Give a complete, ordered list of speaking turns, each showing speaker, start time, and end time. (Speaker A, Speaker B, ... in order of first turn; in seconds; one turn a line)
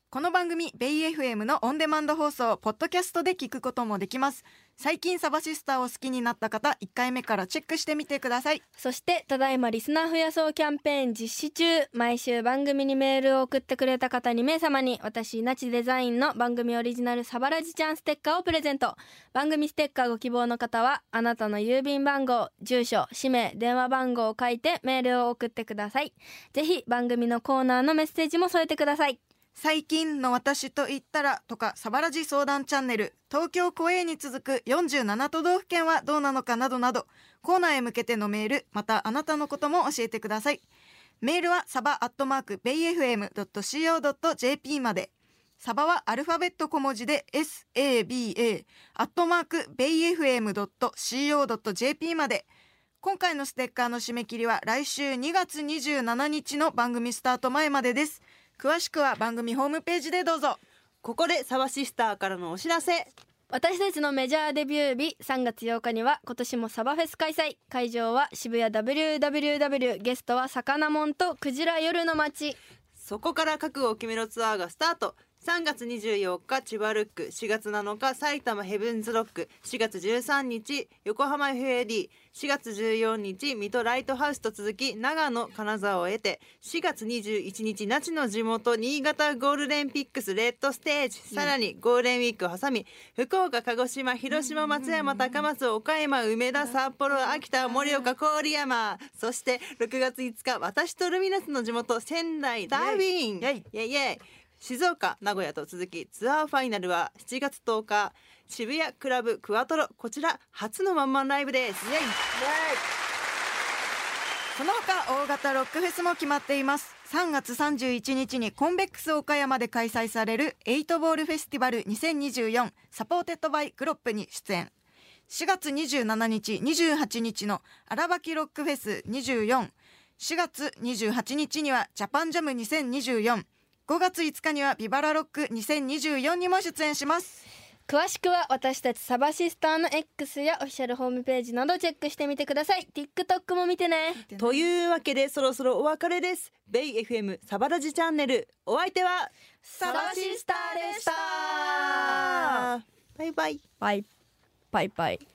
Speaker A: 0.1-8.6
Speaker B: 8.8-29.2
Speaker A: 29.6-40.6
Speaker A: 41.2-52.5
Speaker A: 53.0-60.6
Speaker C: 61.0-63.1
Speaker B: 63.5-72.6
Speaker C: 73.0-111.9
Speaker A: 94.3-95.5
Speaker A: 96.7-98.1
Speaker A: 102.7-103.7
Speaker A: 111.8-112.8
Speaker A: 114.5-124.7
Speaker A: 125.3-137.4
Speaker B: 137.9-144.2
Speaker A: 144.1-144.7
Speaker C: 144.4-153.6
Speaker B: 149.6-151.3
Speaker A: 149.8-152.7
Speaker B: 153.8-154.1
Speaker B: 154.7-155.2